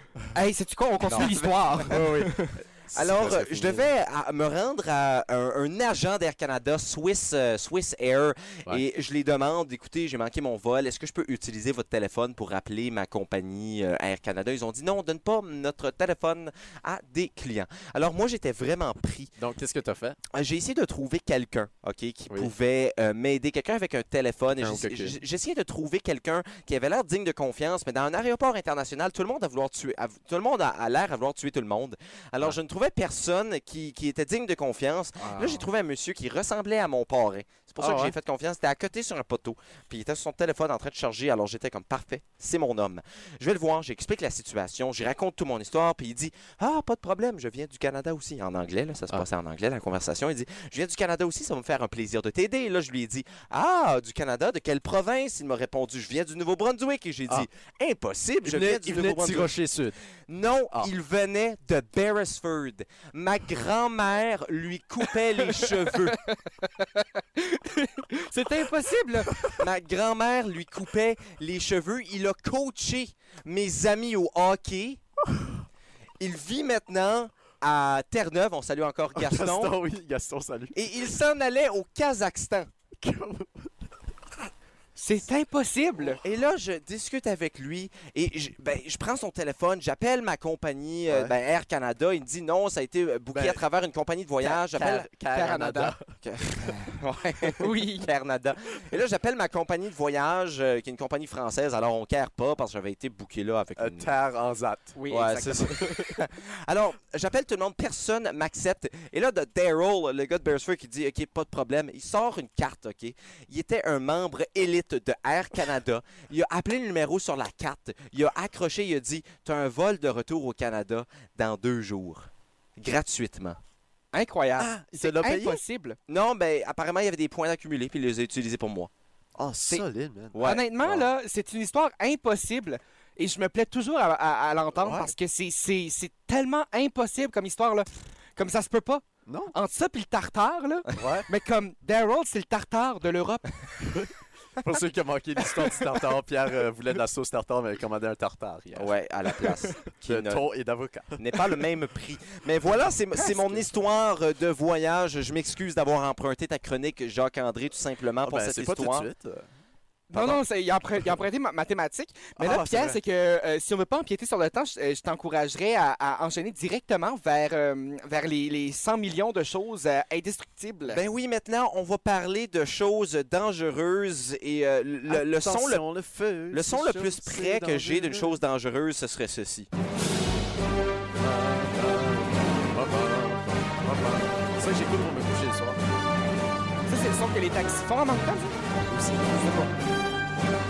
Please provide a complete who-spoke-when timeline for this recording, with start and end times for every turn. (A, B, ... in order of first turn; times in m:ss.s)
0:00.3-0:02.5 A
0:01.1-0:01.3 B
0:01.1-0:02.0 C
0:01.9-0:03.9 B
0:02.9-0:19.3 C
0:19.4-0:20.2 B
0:20.3-0:59.5 C
0:24.6-0:25.2 B
0:35.2-0:35.7 A
0:37.8-0:38.1 B
0:58.4-1:00.0 B
1:00.3-1:06.2 C
1:05.4-1:09.3 A
1:09.6-1:15.0 C
1:16.2-1:19.8 C
1:19.2-1:20.8 B
1:20.7-1:22.7 C
1:23.0-1:23.7 B
1:25.0-1:26.2 A
1:26.2-1:35.1 C
1:33.3-1:33.6 B
1:34.4-1:36.8 B
1:35.1-1:36.0 A
1:36.2-1:44.1 C
1:37.6-1:38.1 A
1:43.8-1:45.0 B
1:45.0-1:45.8 A
1:45.1-2:03.6 C
1:45.7-1:46.0 B
2:04.1-2:06.0 A
2:04.6-2:05.6 B
2:06.1-2:08.9 C
2:09.4-2:11.1 B
2:10.3-2:10.6 C
2:10.4-2:23.4 A
2:14.7-2:15.1 B
2:19.3-2:19.5 B
2:20.9-2:21.3 B
2:23.8-2:31.6 B
2:28.7-2:30.4 C
2:31.2-2:39.1 C
2:38.2-2:39.4 B
2:40.1-2:51.0 A
2:40.1-2:40.4 C
2:42.4-2:43.0 B
2:50.9-2:55.8 C
2:55.1-2:58.4 B
2:56.5-2:59.7 C
3:01.2-3:05.8 B
3:06.9-3:08.6 A
3:08.7-3:09.7 B
3:09.4-3:09.6 A